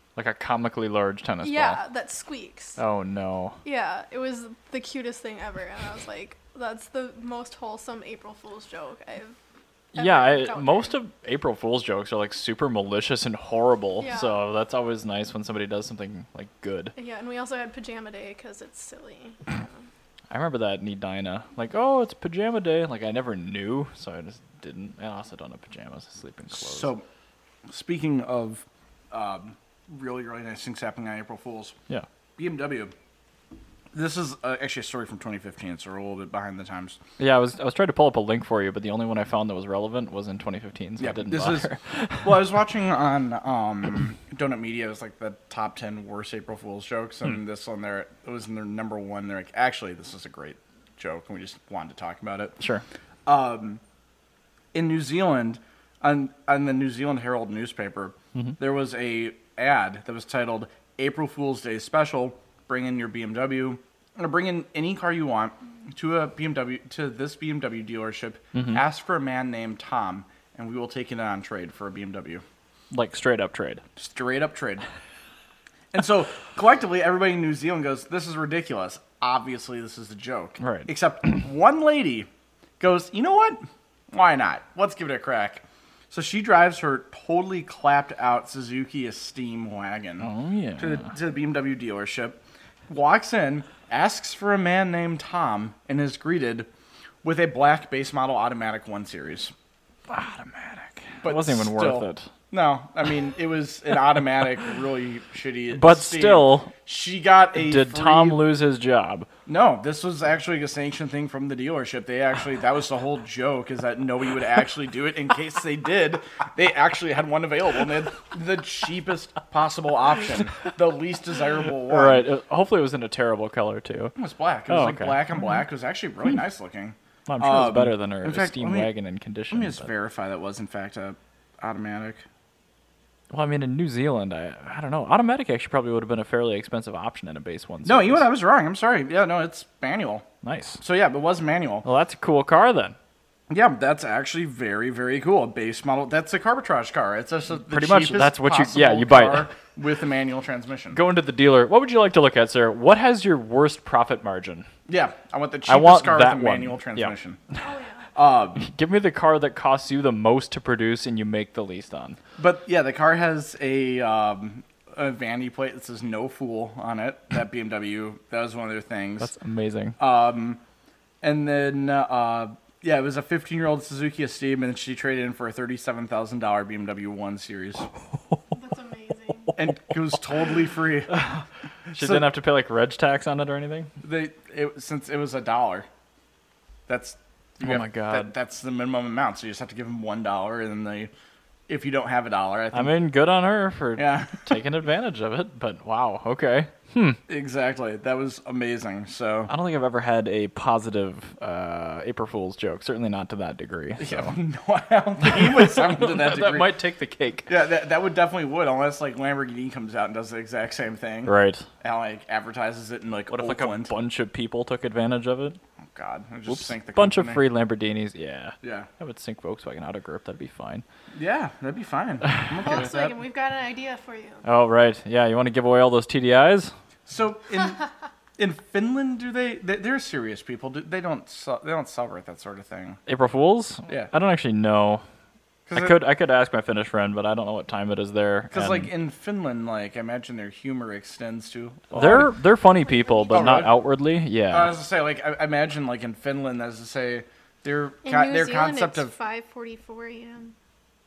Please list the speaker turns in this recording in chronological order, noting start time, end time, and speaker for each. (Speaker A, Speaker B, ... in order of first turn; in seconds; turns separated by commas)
Speaker A: 0.1-1.8, Speaker B: 1.4-2.8, Speaker A: 2.8-3.6, Speaker B: 3.6-9.3, Speaker B: 9.9-10.9, Speaker A: 9.9-16.9, Speaker B: 14.0-14.4, Speaker B: 16.9-19.9, Speaker A: 20.3-26.9, Speaker C: 26.5-27.0, Speaker C: 27.7-31.8, Speaker C: 32.4-32.9, Speaker C: 33.9-37.0, Speaker A: 37.2-42.4, Speaker C: 41.0-41.7, Speaker C: 42.2-52.6, Speaker C: 53.2-53.8, Speaker C: 54.7-72.4, Speaker A: 68.5-68.8, Speaker A: 72.9-73.8, Speaker C: 74.0-74.8, Speaker C: 75.9-82.3, Speaker A: 80.6-80.9, Speaker C: 82.8-96.7, Speaker A: 90.2-91.1, Speaker C: 97.2-99.5, Speaker A: 100.1-102.3, Speaker C: 101.2-108.4, Speaker A: 105.7-106.7, Speaker A: 107.6-109.3, Speaker C: 109.5-122.2, Speaker A: 121.8-124.2, Speaker C: 124.2-128.9, Speaker A: 124.7-125.3, Speaker A: 127.3-129.9, Speaker C: 129.5-132.2, Speaker A: 133.3-138.2, Speaker C: 137.8-140.2, Speaker A: 140.4-140.8, Speaker C: 140.8-141.8, Speaker A: 141.8-143.0, Speaker C: 143.5-151.0, Speaker A: 147.6-149.5, Speaker A: 150.9-154.7, Speaker C: 154.9-157.4, Speaker A: 155.7-157.6, Speaker B: 157.6-158.1, Speaker C: 158.1-158.7, Speaker A: 158.6-162.2, Speaker C: 162.4-169.3, Speaker A: 169.2-170.0, Speaker C: 170.0-170.6, Speaker C: 171.2-177.9, Speaker B: 178.5-179.5, Speaker C: 179.6-181.2, Speaker A: 181.1-183.9, Speaker C: 181.9-182.3, Speaker C: 184.0-185.9, Speaker C: 186.9-191.1, Speaker A: 187.6-188.3, Speaker C: 191.7-192.9, Speaker A: 192.7-197.2, Speaker C: 194.0-194.5, Speaker C: 197.3-199.5, Speaker A: 199.5-204.3, Speaker C: 204.0-206.7, Speaker A: 205.2-207.5, Speaker C: 207.5-213.9, Speaker A: 211.2-211.7, Speaker A: 213.3-215.6, Speaker C: 215.8-217.4, Speaker A: 216.5-220.8, Speaker C: 218.6-218.9, Speaker C: 221.1-223.2, Speaker A: 222.2-222.7, Speaker B: 222.6-224.4, Speaker A: 224.4-226.7, Speaker C: 227.1-227.8, Speaker C: 228.4-233.0, Speaker A: 233.1-235.0, Speaker C: 235.7-236.0, Speaker A: 235.7-238.9, Speaker C: 238.5-242.3, Speaker A: 241.9-244.7, Speaker B: 242.7-243.7, Speaker C: 243.3-243.7, Speaker C: 244.5-249.1, Speaker B: 248.0-250.5